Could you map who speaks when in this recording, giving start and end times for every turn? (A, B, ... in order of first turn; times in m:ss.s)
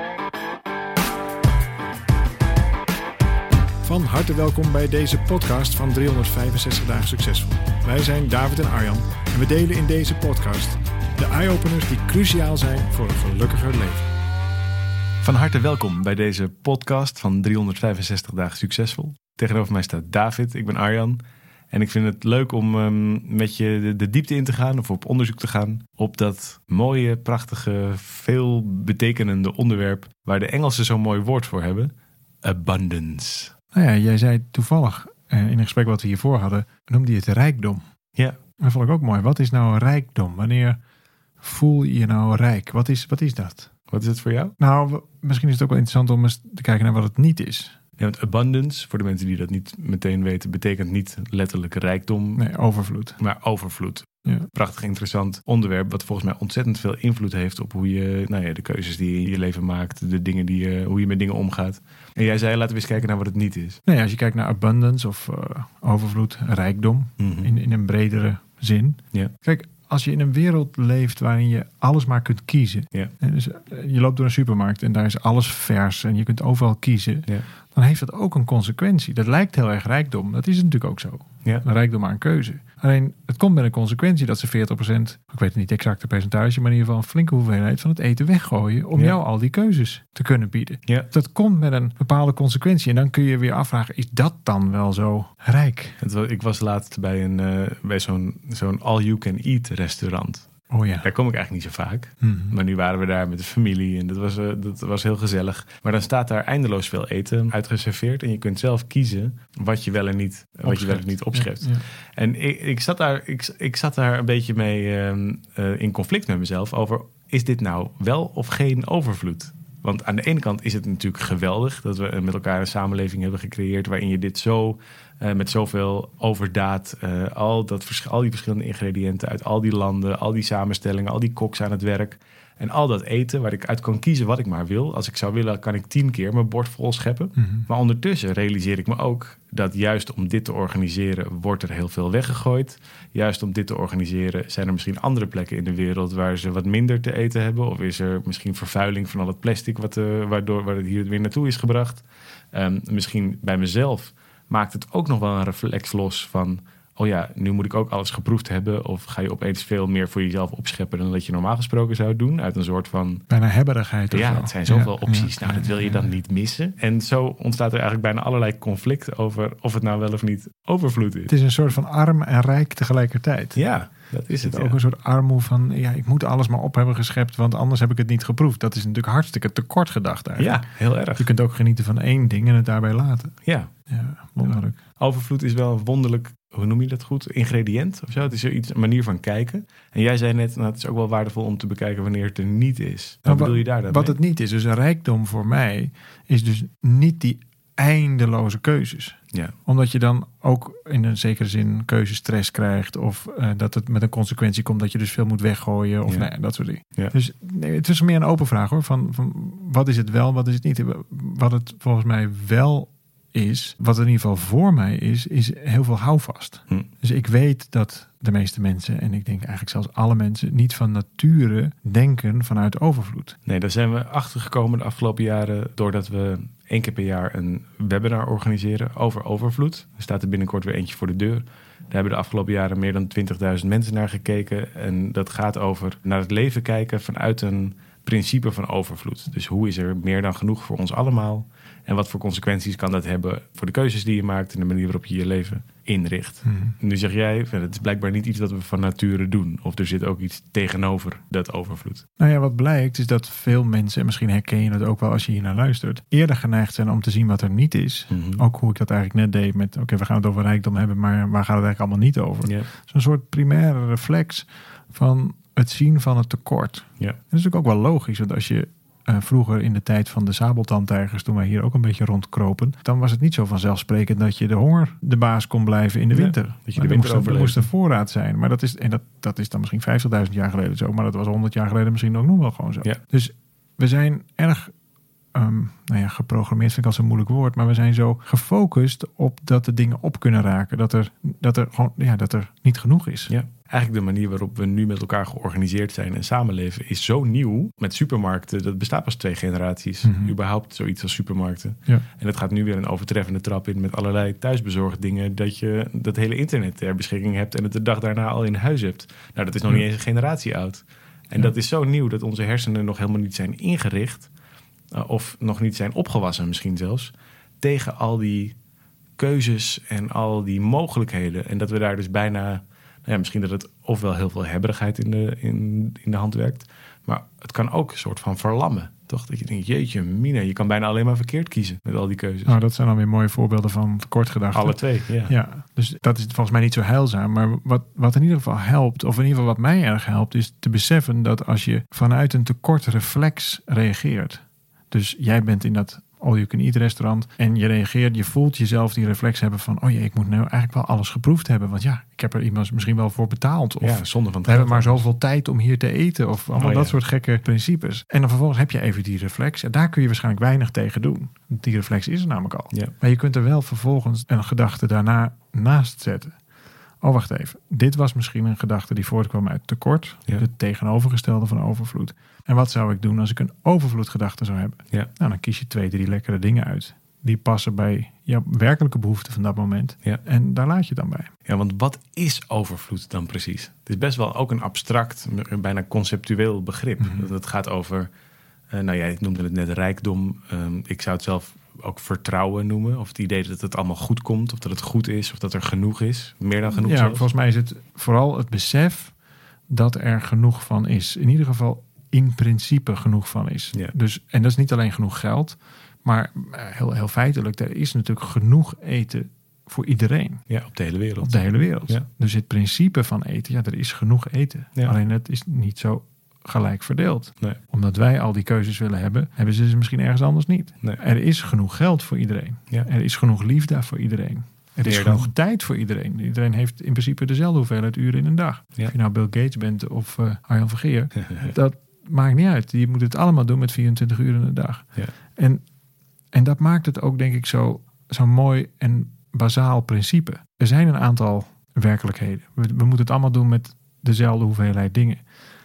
0:03.8-0:14.1 A
0:15.2-0:31.9 B
0:32.4-0:33.5 B
0:33.7-0:37.8 A
0:38.6-0:40.8 A
0:41.4-0:43.7 A
0:43.9-0:44.5 B
0:44.6-0:47.8 A
0:48.0-0:52.4 B
0:52.4-0:53.2 A
0:53.2-1:03.8 B
1:03.8-1:36.0 A
1:07.2-1:07.5 B
1:36.0-1:40.4 B
1:40.7-1:41.1 A
1:41.0-2:43.2 B
1:42.2-1:42.6 A
1:50.6-1:51.8 A
2:17.4-2:17.6 A
2:43.3-2:46.1 A
2:44.1-2:51.3 B
2:51.3-2:53.6 A
2:53.5-2:54.8 B
2:54.4-3:03.3 A
3:00.4-3:01.3 B
3:03.4-3:03.7 B
3:03.9-3:04.8 A
3:04.4-3:14.2 B
3:13.2-3:43.4 A
3:43.4-4:12.0 B
4:06.4-4:06.7 A
4:12.2-4:44.7 A
4:18.1-4:18.4 B
4:36.1-4:37.7 B
4:45.3-4:53.3 A
4:53.3-5:14.3 B
5:00.0-5:00.3 A
5:14.9-5:18.5 B
5:19.2-5:32.6 B
5:32.4-6:06.3 A
5:34.5-5:35.3 B
5:53.8-5:55.0 B
5:56.5-5:57.0 B
6:07.0-6:21.3 A
6:21.4-6:28.1 B
6:27.0-6:27.2 A
6:28.7-6:37.3 B
6:36.7-6:39.1 A
6:39.7-6:50.4 A
6:50.5-6:52.0 B
6:51.2-7:15.6 A
7:04.8-7:05.3 B
7:11.2-7:11.5 B
7:16.3-7:25.2 A